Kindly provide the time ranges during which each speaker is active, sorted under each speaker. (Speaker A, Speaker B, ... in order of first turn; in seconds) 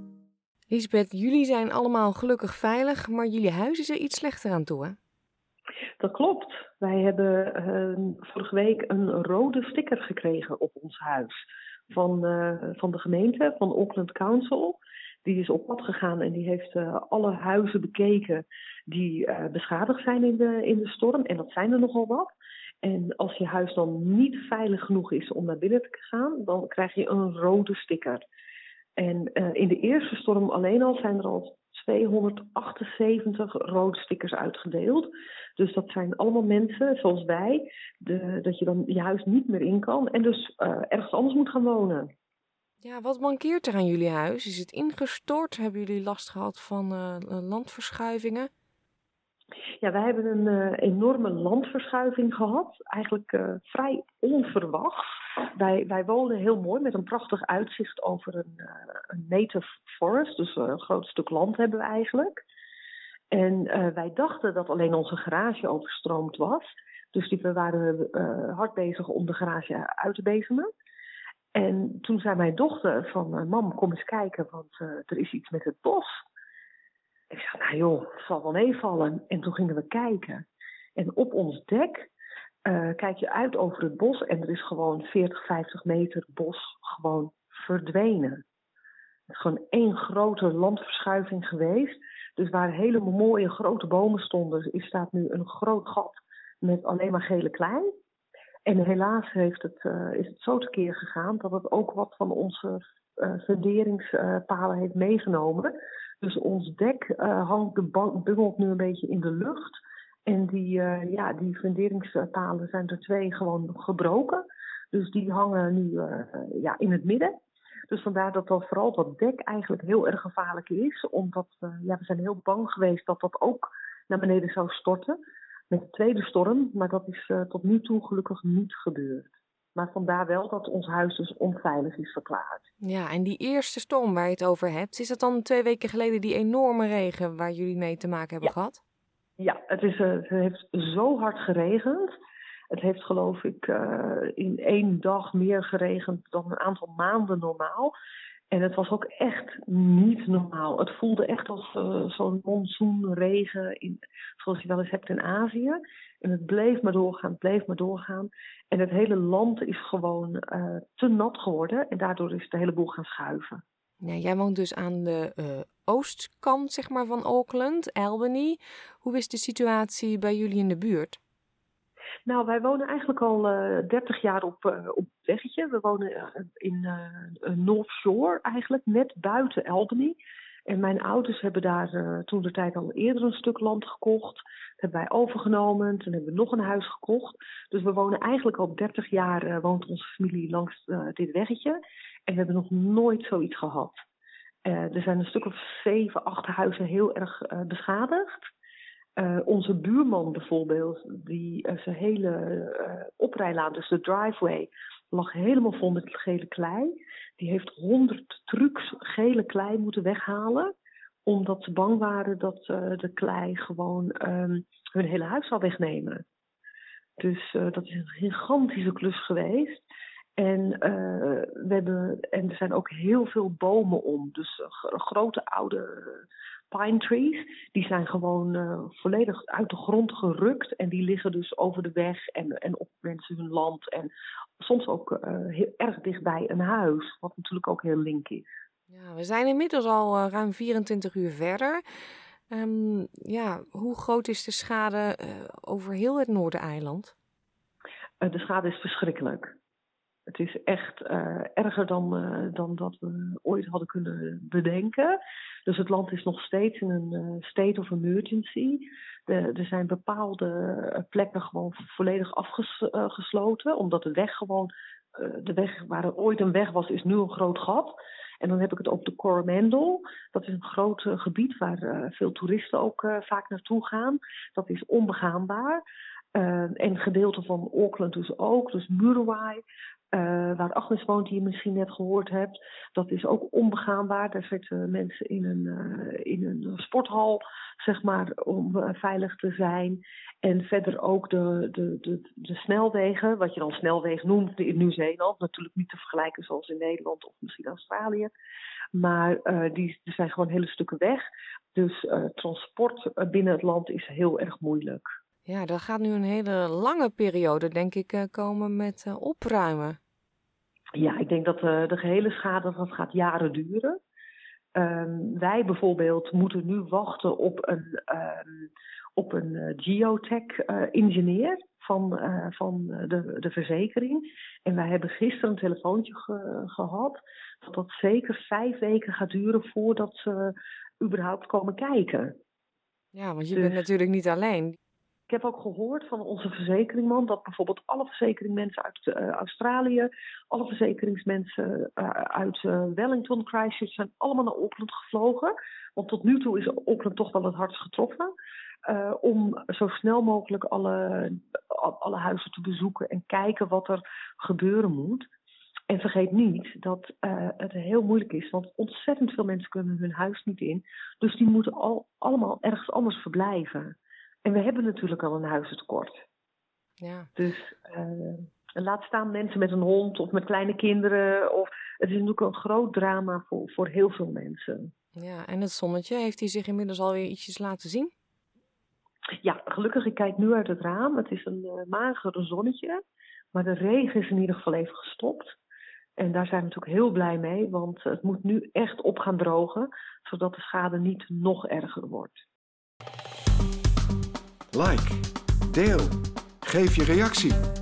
Speaker A: 0.7-5.0, 42.8-48.5, 132.8-138.8, 164.0-171.2, 238.9-241.8, 242.5-247.1, 305.4-310.0, 333.1-334.8, 367.0-367.3, 375.1-378.1
Speaker B: 6.0-28.2, 29.0-42.1, 49.8-62.4, 63.3-70.7, 71.5-76.2, 77.3-82.1, 82.6-88.4, 89.3-97.9, 98.7-117.3, 117.9-125.2, 125.7-132.6, 139.4-142.2, 142.7-147.9, 148.5-163.6, 172.2-194.0, 194.6-198.5, 199.2-210.7, 211.2-216.2, 217.2-219.8, 220.4-238.5, 248.2-249.5, 250.3-275.8, 276.3-279.6, 280.1-298.3, 298.9-305.1, 310.9-314.0, 314.7-332.4, 335.3-348.3, 348.9-355.3, 355.9-366.2, 367.4-374.9, 379.4-383.0, 383.5-385.6, 386.2-392.4
Speaker C: 394.7-397.7